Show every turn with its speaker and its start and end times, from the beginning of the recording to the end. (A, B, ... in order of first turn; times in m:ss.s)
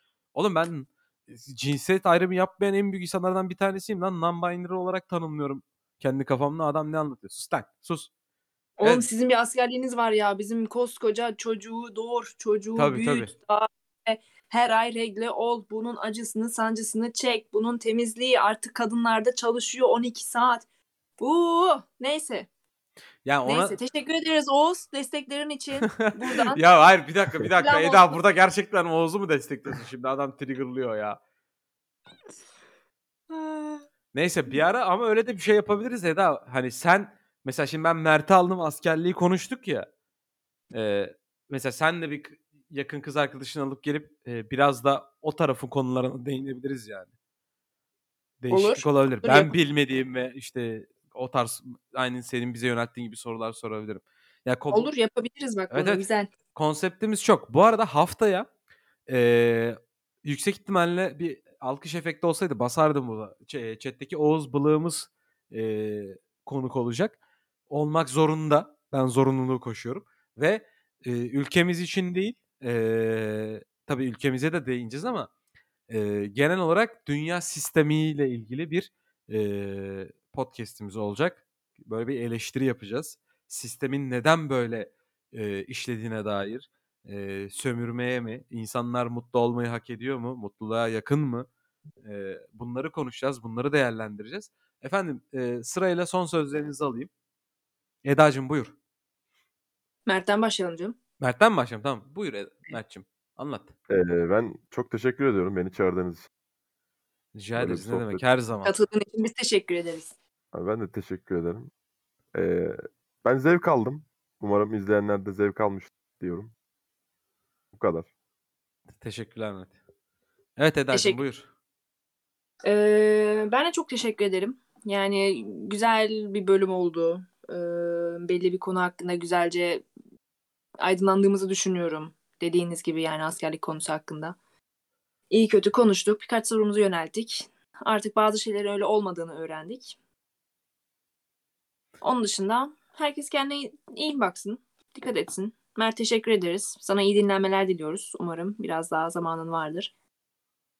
0:00.4-0:08.1 A
0:08.8-0:20.6 B
0:08.8-0:09.1 A
0:12.8-0:13.3 A
0:21.2-0:22.5 B
0:23.2-0:23.8 A
0:23.5-0:26.6 B
0:25.9-0:31.2 A
0:27.6-0:28.2 B
0:33.3-0:33.9 B
0:34.1-0:39.9 A
0:40.7-0:47.1 A
0:48.4-0:54.9 A
0:48.5-0:49.5 B
0:54.7-0:56.3 B
0:55.7-0:58.5 A
0:59.1-1:07.2 A
1:07.7-1:15.3 A
1:15.9-1:31.5 A
1:32.0-1:37.1 A
1:38.0-1:38.8 A
1:40.1-1:41.0 B
1:41.2-1:43.7 A
1:43.9-1:46.3 C
1:47.3-1:48.8 A
1:47.6-1:48.2 C
1:48.6-1:50.2 B
1:50.5-1:51.7 C
1:52.3-1:56.5 C
1:57.7-1:58.1 C
1:59.0-1:59.7 A
2:00.6-2:01.5 A
2:00.9-2:01.2 B
2:02.6-2:09.8 B
2:10.8-2:14.4 B
2:15.3-2:20.0 B
2:22.0-2:29.9 B